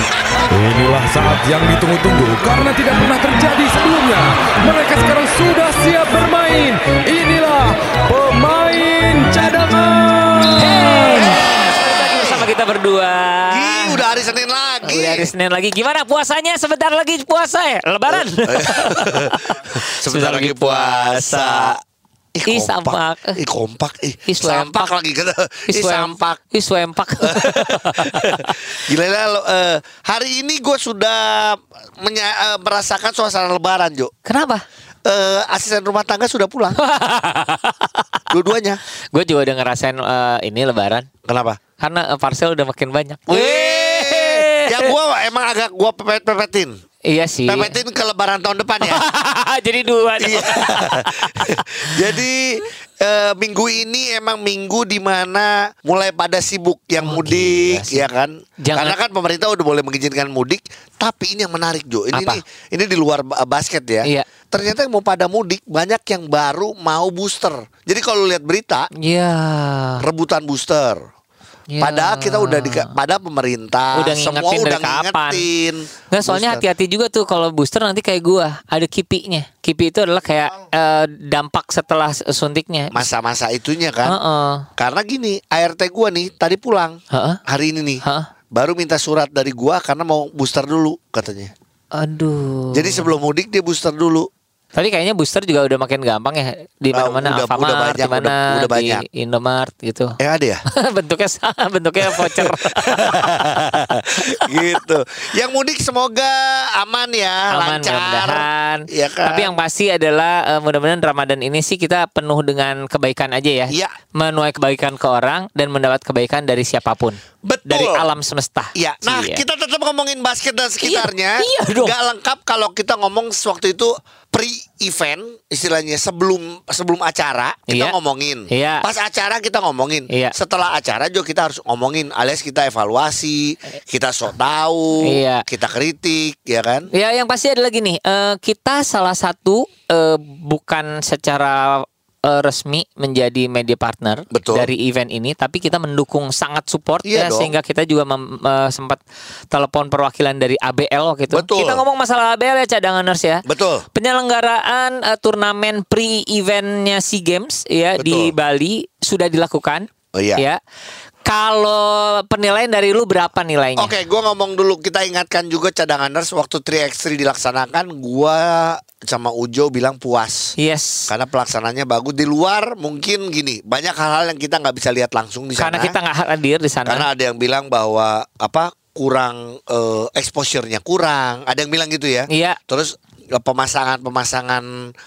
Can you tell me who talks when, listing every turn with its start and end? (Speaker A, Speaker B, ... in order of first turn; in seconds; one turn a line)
Speaker A: 0.5-11.3
Speaker B: 10.4-14.0
Speaker C: 11.1-12.5
Speaker C: 13.5-15.3
Speaker B: 14.8-21.8
Speaker C: 18.1-21.8
Speaker C: 22.3-26.4
Speaker B: 22.5-23.4
Speaker B: 24.3-24.9
Speaker B: 25.7-28.3
Speaker C: 27.2-34.1
Speaker B: 34.3-34.6
Speaker C: 35.1-36.8
Speaker B: 36.8-38.2
Speaker C: 38.3-38.8
Speaker B: 39.1-41.1
Speaker C: 41.3-41.6
Speaker B: 41.8-44.9
Speaker C: 43.3-46.7
Speaker B: 47.1-47.8
Speaker C: 47.5-49.0
Speaker B: 48.9-51.6
Speaker C: 50.2-68.9
Speaker B: 57.0-58.1
Speaker B: 58.6-59.0
Speaker B: 62.1-62.4
Speaker B: 69.0-70.0
Speaker C: 70.0-71.0
Speaker B: 71.7-72.9
Speaker C: 71.8-76.6
Speaker B: 74.0-75.5
Speaker B: 76.1-83.0
Speaker C: 82.9-84.2
Speaker B: 84.0-84.7
Speaker C: 84.8-88.0
Speaker B: 87.1-87.4
Speaker C: 88.5-91.5
Speaker B: 92.0-93.1
Speaker C: 92.7-94.3
Speaker B: 94.8-100.1
Speaker C: 96.9-99.0
Speaker C: 100.2-100.6
Speaker B: 100.8-103.7
Speaker C: 102.1-109.5
Speaker B: 104.3-104.8
Speaker B: 107.5-119.4
Speaker C: 117.4-118.0
Speaker C: 118.8-136.9
Speaker B: 120.8-122.0
Speaker B: 127.7-127.9
Speaker B: 128.5-128.8
Speaker B: 135.1-135.4
Speaker B: 136.9-149.0
Speaker C: 144.3-144.7
Speaker C: 147.0-147.5
Speaker B: 149.5-160.6
Speaker C: 151.3-151.8
Speaker C: 153.5-153.8
Speaker C: 158.0-158.3
Speaker C: 160.2-160.4
Speaker B: 161.3-163.9
Speaker C: 163.8-170.5
Speaker B: 170.6-171.1
Speaker C: 171.1-176.0
Speaker B: 175.6-177.1
Speaker C: 176.8-184.7
Speaker B: 182.3-182.6